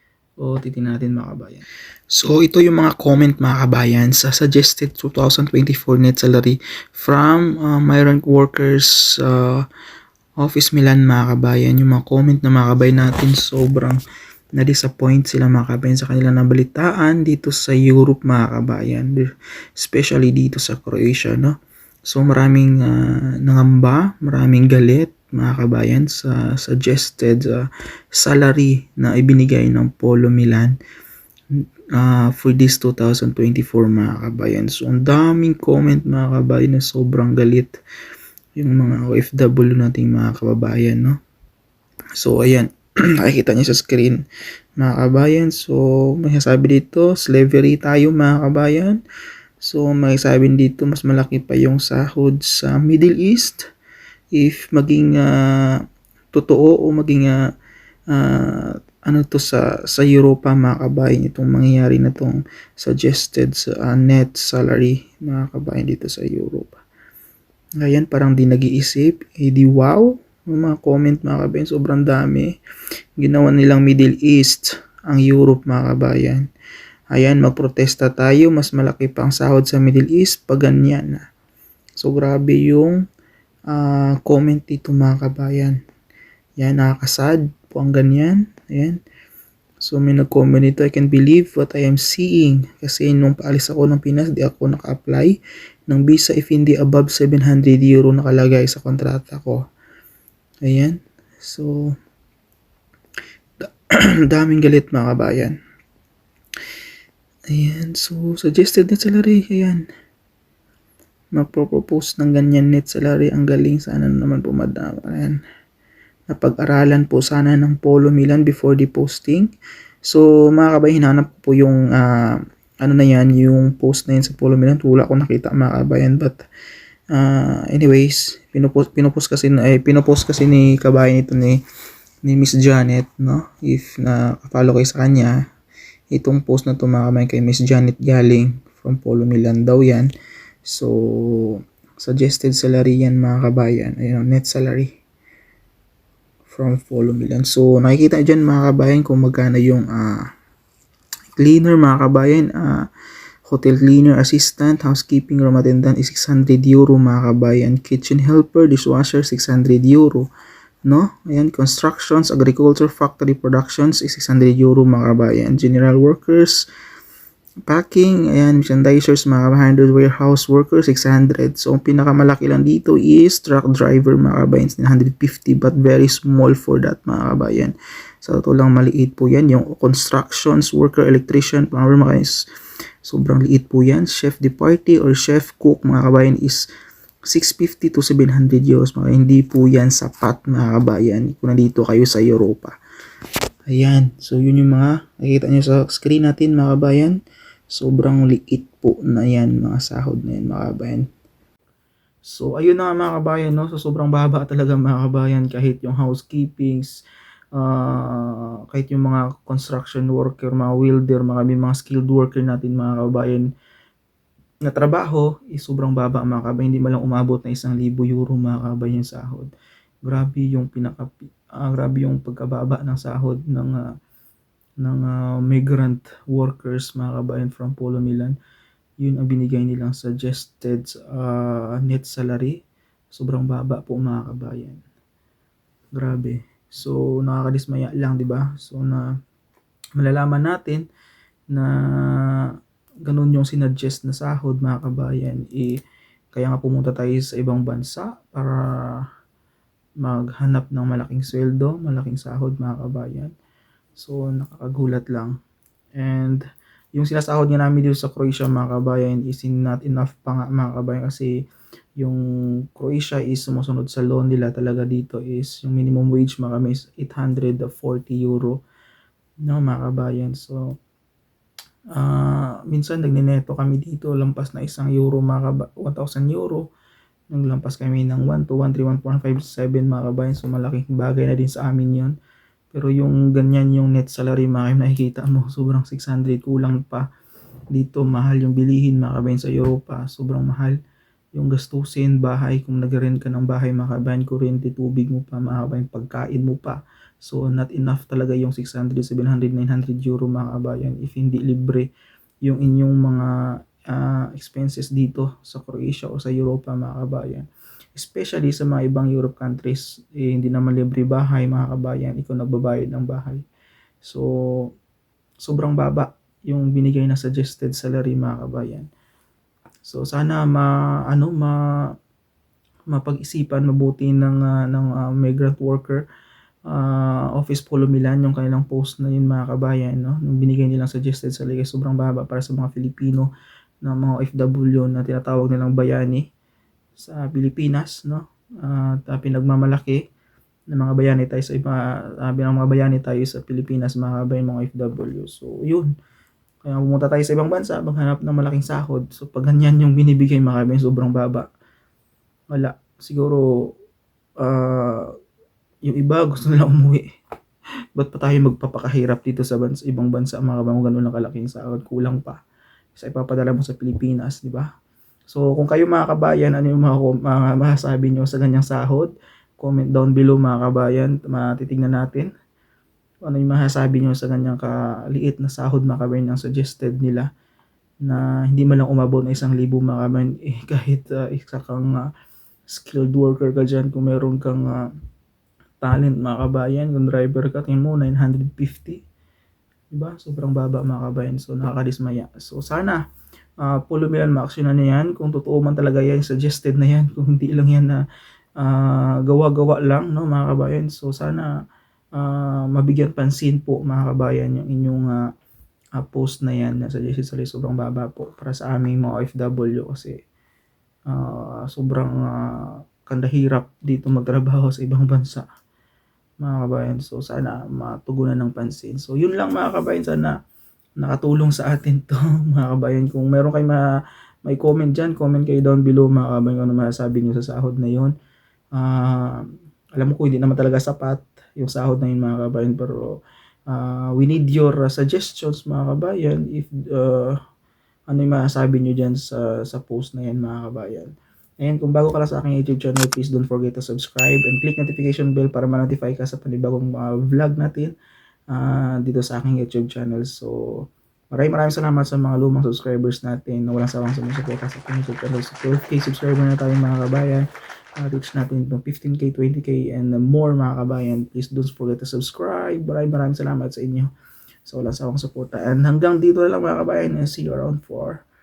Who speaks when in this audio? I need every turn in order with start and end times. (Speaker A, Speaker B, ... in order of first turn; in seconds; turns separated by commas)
Speaker A: 0.4-9.7, Speaker A: 10.4-14.0, Speaker A: 14.6-21.5, Speaker A: 22.1-30.7, Speaker A: 31.9-37.8, Speaker A: 38.5-41.2, Speaker A: 42.2-42.7, Speaker A: 43.2-44.2, Speaker A: 44.8-49.0, Speaker A: 49.6-53.6, Speaker A: 54.3-57.4, Speaker A: 58.1-66.8, Speaker A: 67.8-72.5, Speaker A: 73.2-76.5, Speaker A: 77.1-81.2, Speaker A: 82.0-83.0, Speaker A: 83.7-85.8, Speaker A: 86.6-89.0, Speaker A: 89.8-95.4, Speaker A: 95.9-99.6, Speaker A: 100.6-102.0, Speaker A: 103.6-105.5, Speaker A: 107.5-109.9, Speaker A: 111.3-115.4, Speaker A: 116.3-119.5, Speaker A: 120.0-126.4, Speaker A: 127.1-131.6, Speaker A: 132.2-135.4, Speaker A: 136.1-140.1, Speaker A: 140.6-144.9, Speaker A: 146.5-150.3, Speaker A: 151.3-152.9, Speaker A: 153.4-160.3, Speaker A: 160.8-166.7, Speaker A: 167.7-182.4, Speaker A: 183.0-186.7, Speaker A: 187.3-192.7, Speaker A: 193.7-197.2, Speaker A: 197.7-201.1, Speaker A: 202.3-206.9, Speaker A: 207.5-213.5, Speaker A: 214.6-219.5, Speaker A: 220.0-223.8, Speaker A: 224.8-228.3, Speaker A: 229.0-232.6, Speaker A: 233.1-234.8, Speaker A: 235.9-239.1, Speaker A: 240.0-240.8, Speaker A: 241.5-242.5, Speaker A: 243.0-245.8, Speaker A: 246.3-249.0, Speaker A: 250.0-253.3, Speaker A: 254.0-255.3, Speaker A: 256.0-256.4, Speaker A: 256.9-261.3, Speaker A: 262.7-268.6, Speaker A: 269.4-270.7, Speaker A: 271.9-276.7, Speaker A: 277.3-282.1, Speaker A: 282.7-287.1, Speaker A: 287.7-290.8, Speaker A: 291.3-301.9, Speaker A: 302.4-313.4, Speaker A: 314.0-314.7, Speaker A: 315.4-318.9, Speaker A: 319.8-321.9, Speaker A: 322.9-326.0, Speaker A: 326.7-333.3, Speaker A: 333.8-336.2, Speaker A: 337.0-340.1, Speaker A: 340.7-345.9, Speaker A: 346.6-351.5, Speaker A: 352.5-353.4, Speaker A: 354.4-355.1, Speaker A: 355.8-357.0, Speaker A: 357.9-362.4, Speaker A: 362.9-364.7, Speaker A: 365.3-372.3, Speaker A: 373.2-377.3, Speaker A: 378.0-382.1, Speaker A: 382.7-384.9, Speaker A: 385.8-389.0, Speaker A: 389.9-393.0, Speaker A: 393.6-398.0, Speaker A: 398.6-401.5, Speaker A: 402.1-405.2, Speaker A: 405.9-410.1, Speaker A: 411.1-415.4, Speaker A: 416.4-420.3, Speaker A: 421.0-423.8, Speaker A: 424.4-428.1, Speaker A: 428.7-429.4, Speaker A: 430.0-433.2, Speaker A: 433.7-437.4, Speaker A: 438.1-447.9, Speaker A: 448.5-457.5, Speaker A: 458.0-464.1, Speaker A: 464.6-468.2